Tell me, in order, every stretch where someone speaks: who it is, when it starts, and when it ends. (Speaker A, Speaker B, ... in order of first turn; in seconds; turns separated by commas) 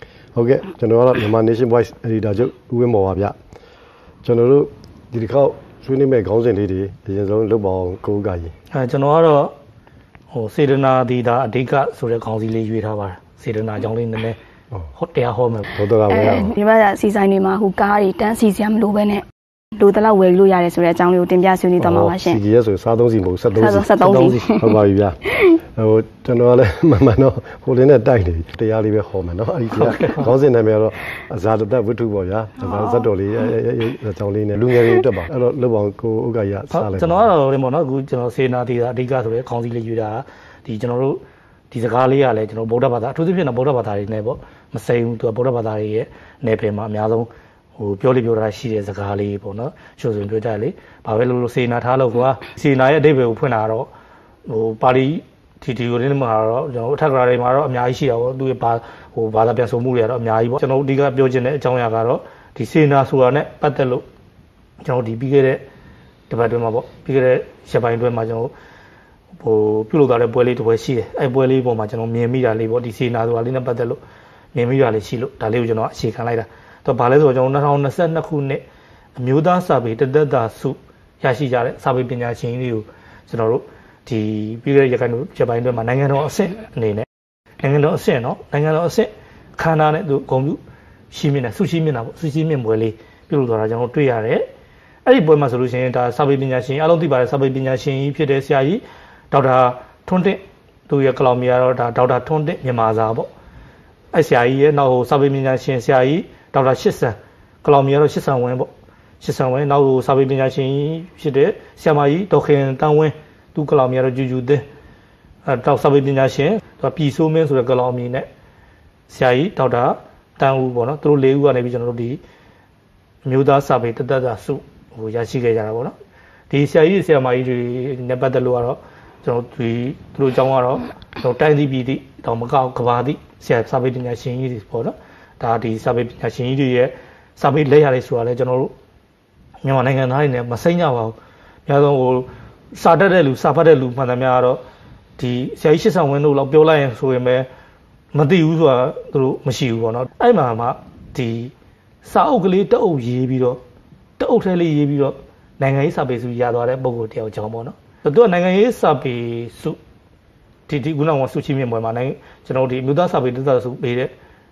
Speaker A: 0.3-3.3, Speaker A: 4.2-8.5, Speaker B: 8.7-9.5, Speaker B: 10.3-14.4, Speaker B: 14.9-15.7, Speaker A: 15.7-16.5, Speaker C: 16.1-19.2, Speaker C: 19.8-22.4, Speaker A: 21.8-25.2, Speaker C: 23.5-25.6, Speaker B: 24.0-24.4, Speaker A: 25.7-37.3, Speaker B: 29.8-30.2, Speaker C: 32.7-33.0, Speaker B: 36.7-53.9, Speaker B: 54.5-64.0, Speaker B: 64.8-65.6, Speaker B: 66.3-68.5, Speaker B: 69.4-74.0, Speaker B: 74.5-78.6, Speaker B: 79.2-87.1, Speaker B: 87.6-90.6, Speaker B: 91.1-94.5, Speaker B: 95.0-103.3, Speaker B: 104.1-108.7, Speaker B: 109.2-114.6, Speaker B: 115.5-118.3, Speaker B: 119.1-122.2, Speaker B: 123.2-125.9, Speaker B: 126.5-138.7, Speaker B: 139.6-144.6, Speaker B: 145.2-147.5, Speaker B: 148.1-153.6, Speaker B: 154.2-159.8, Speaker B: 160.7-164.1